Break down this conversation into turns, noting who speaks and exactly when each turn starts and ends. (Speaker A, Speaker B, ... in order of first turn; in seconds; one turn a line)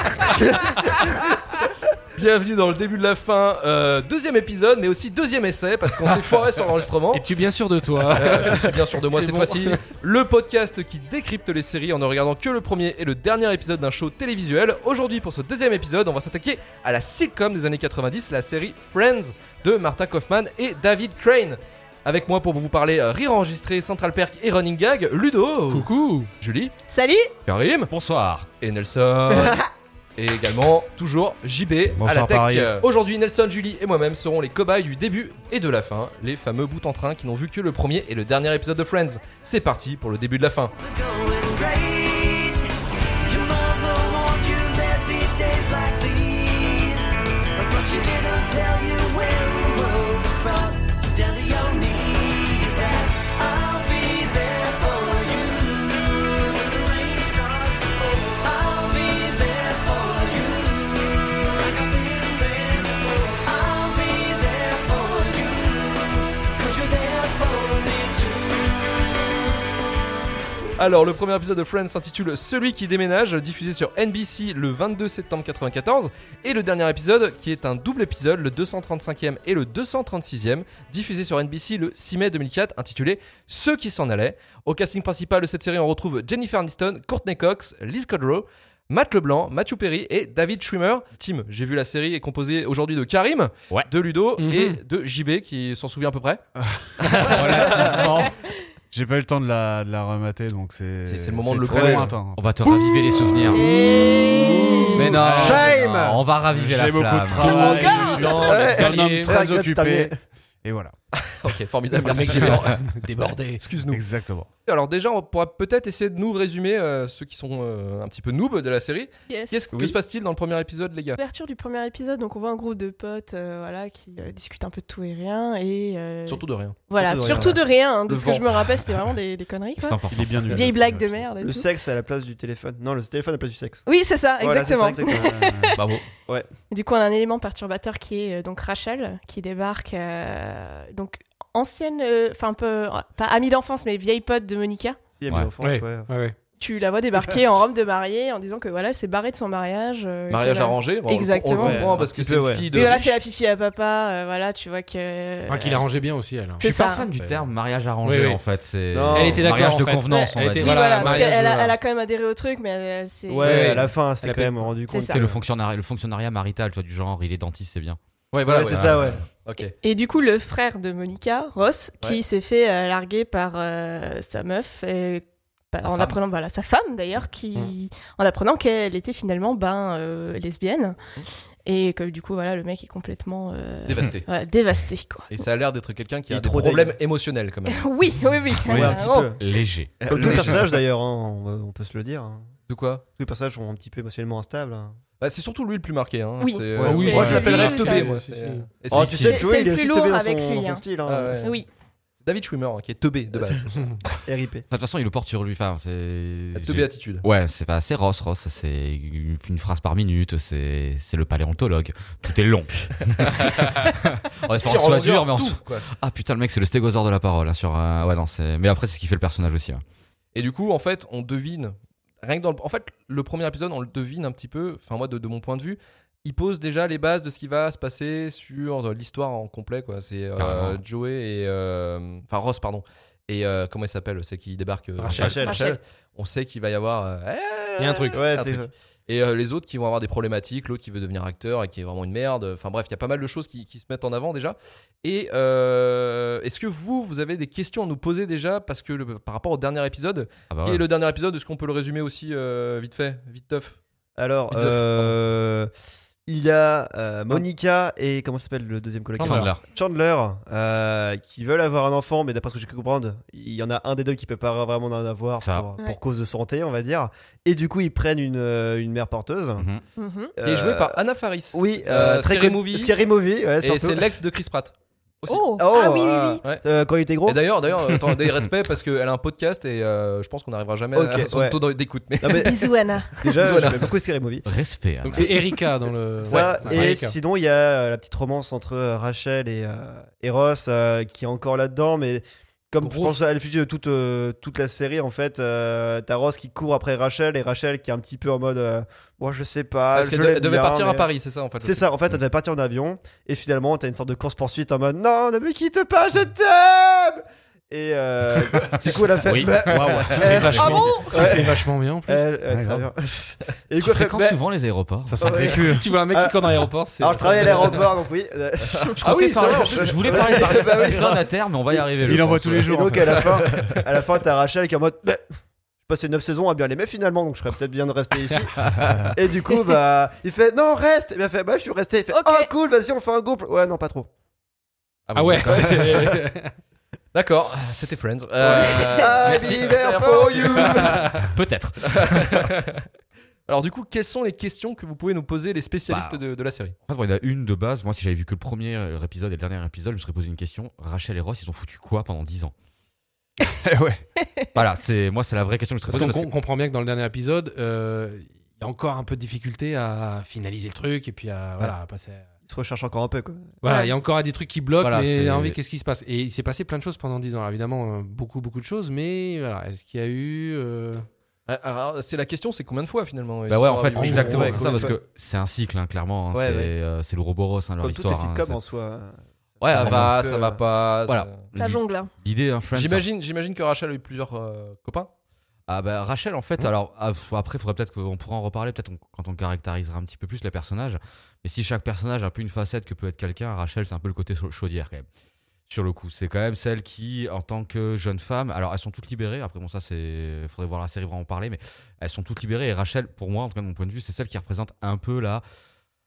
Speaker A: 0.4-0.7
Speaker B: 2.2-7.3
Speaker C: 7.1-9.8
Speaker B: 8.2-26.7
Speaker C: 25.7-26.3
Speaker D: 26.9-27.3
Speaker B: 27.5-27.9
Speaker E: 27.9-28.5
Speaker B: 28.6-29.6
Speaker A: 29.3-29.7
Speaker B: 30.2-40.7
Speaker F: 31.9-32.8
Speaker G: 40.8-42.6
Speaker G: 43.3-68.7
Speaker B: 70.8-96.4
Speaker C: 94.4-94.8
Speaker F: 96.6-98.3
Speaker C: 97.0-97.9
Speaker E: 97.4-98.3
Speaker F: 98.9-103.6
Speaker B: 101.0-102.2
Speaker A: 101.7-102.1
Speaker E: 102.3-103.7
Speaker D: 103.5-105.2
Speaker E: 105.0-107.8
Speaker F: 105.1-110.9
Speaker A: 105.1-106.2
Speaker D: 107.4-108.7
Speaker C: 108.2-109.4
Speaker A: 108.3-110.1
Speaker B: 111.2-112.7
Speaker C: 112.0-113.6
Speaker B: 113.6-114.0
Speaker F: 113.9-114.5
Speaker B: 114.7-121.2
Speaker D: 119.3-119.7
Speaker D: 121.2-131.7
Speaker B: 126.3-128.4
Speaker A: 127.0-127.6
Speaker E: 129.8-131.2
Speaker F: 130.1-131.1
Speaker A: 131.4-133.8
Speaker D: 133.9-135.8
Speaker A: 134.4-135.4
Speaker F: 135.1-135.8
Speaker B: 135.8-136.1
Speaker D: 136.7-145.0
Speaker A: 145.2-146.1
Speaker C: 145.6-146.3
Speaker D: 146.6-152.0
Speaker B: 150.3-153.2
Speaker A: 151.6-152.7
Speaker D: 152.7-155.9
Speaker C: 155.5-156.6
Speaker D: 156.6-157.1
Speaker E: 156.6-161.3
Speaker C: 157.2-157.5
Speaker C: 158.0-158.4
Speaker A: 158.9-159.7
Speaker C: 159.1-161.7
Speaker D: 160.1-163.8
Speaker A: 163.3-165.4
Speaker C: 163.4-164.7
Speaker D: 164.9-165.2
Speaker E: 165.1-168.0
Speaker B: 168.3-169.8
Speaker A: 168.5-169.2
Speaker E: 168.5-169.2
Speaker D: 169.8-181.0
Speaker D: 181.7-185.3
Speaker B: 183.9-184.3
Speaker B: 185.3-187.9
Speaker A: 186.3-187.0
Speaker D: 187.7-189.4
Speaker A: 188.7-189.4
Speaker E: 189.4-190.6
Speaker B: 190.0-190.8
Speaker A: 190.1-192.5
Speaker B: 192.7-193.1
Speaker A: 193.2-195.0
Speaker B: 195.2-199.4
Speaker D: 196.4-198.2
Speaker A: 196.8-197.4
Speaker C: 196.8-198.7
Speaker A: 198.9-201.5
Speaker D: 199.2-200.8
Speaker B: 201.1-201.6
Speaker D: 201.4-201.7
Speaker B: 202.2-204.0
Speaker A: 204.2-204.7
Speaker E: 204.7-219.8
Speaker B: 206.6-207.2
Speaker B: 213.2-213.8
Speaker B: 214.6-215.9
Speaker B: 220.3-253.8
Speaker E: 230.4-230.8
Speaker C: 235.0-235.3
Speaker A: 235.1-235.6
Speaker D: 235.3-235.8
Speaker C: 237.8-238.2
Speaker A: 238.1-238.7
Speaker E: 250.5-250.8
Speaker A: 254.2-255.7
Speaker B: 254.5-255.2
Speaker A: 256.3-269.7
Speaker E: 259.2-259.6
Speaker C: 259.2-259.5
Speaker E: 265.4-265.7
Speaker D: 270.0-270.3
Speaker A: 270.4-271.0
Speaker B: 270.4-273.0
Speaker A: 271.5-274.1
Speaker B: 273.6-275.7
Speaker D: 275.3-276.6
Speaker A: 275.6-277.4
Speaker B: 277.2-283.9
Speaker A: 280.9-281.6
Speaker A: 282.2-282.6
Speaker D: 282.4-283.2
Speaker A: 283.2-284.5
Speaker E: 284.4-285.4
Speaker C: 285.0-287.1
Speaker A: 286.2-301.1
Speaker B: 286.3-286.9
Speaker C: 292.8-293.2
Speaker B: 299.9-301.9
Speaker A: 301.6-314.4
Speaker E: 309.2-310.8
Speaker F: 309.4-310.7
Speaker C: 310.2-312.2
Speaker D: 310.6-311.2
Speaker F: 312.5-312.9
Speaker E: 313.8-315.3
Speaker F: 315.1-315.9
Speaker A: 315.2-325.2
Speaker C: 315.6-317.9
Speaker E: 319.0-322.8
Speaker C: 319.0-320.7
Speaker F: 322.0-323.8
Speaker A: 325.8-328.6
Speaker E: 328.6-329.1
Speaker F: 328.8-329.1
Speaker A: 329.1-334.1
Speaker D: 332.1-332.5
Speaker B: 335.1-336.2
Speaker C: 335.1-336.5
Speaker A: 335.5-336.1
Speaker B: 337.1-341.1
Speaker A: 338.4-341.1
Speaker D: 338.5-339.4
Speaker E: 340.6-342.5
Speaker C: 340.8-341.2
Speaker B: 341.8-342.8
Speaker B: 343.5-346.8
Speaker E: 345.9-346.2
Speaker E: 346.9-352.5
Speaker F: 353.6-354.0
Speaker E: 354.6-356.3
Speaker C: 355.9-362.3
Speaker A: 362.5-363.5
Speaker C: 363.6-371.1
Speaker D: 363.6-363.9
Speaker E: 364.8-365.6
Speaker B: 371.5-374.9
Speaker E: 373.5-378.6
Speaker C: 374.0-374.7
Speaker A: 374.1-375.0
Speaker A: 376.3-376.7
Speaker A: 377.8-380.6
Speaker B: 379.6-381.5
Speaker E: 379.8-380.1
Speaker E: 381.1-383.1
Speaker D: 381.5-382.1
Speaker B: 382.7-385.1
Speaker E: 385.7-395.1
Speaker E: 395.7-405.4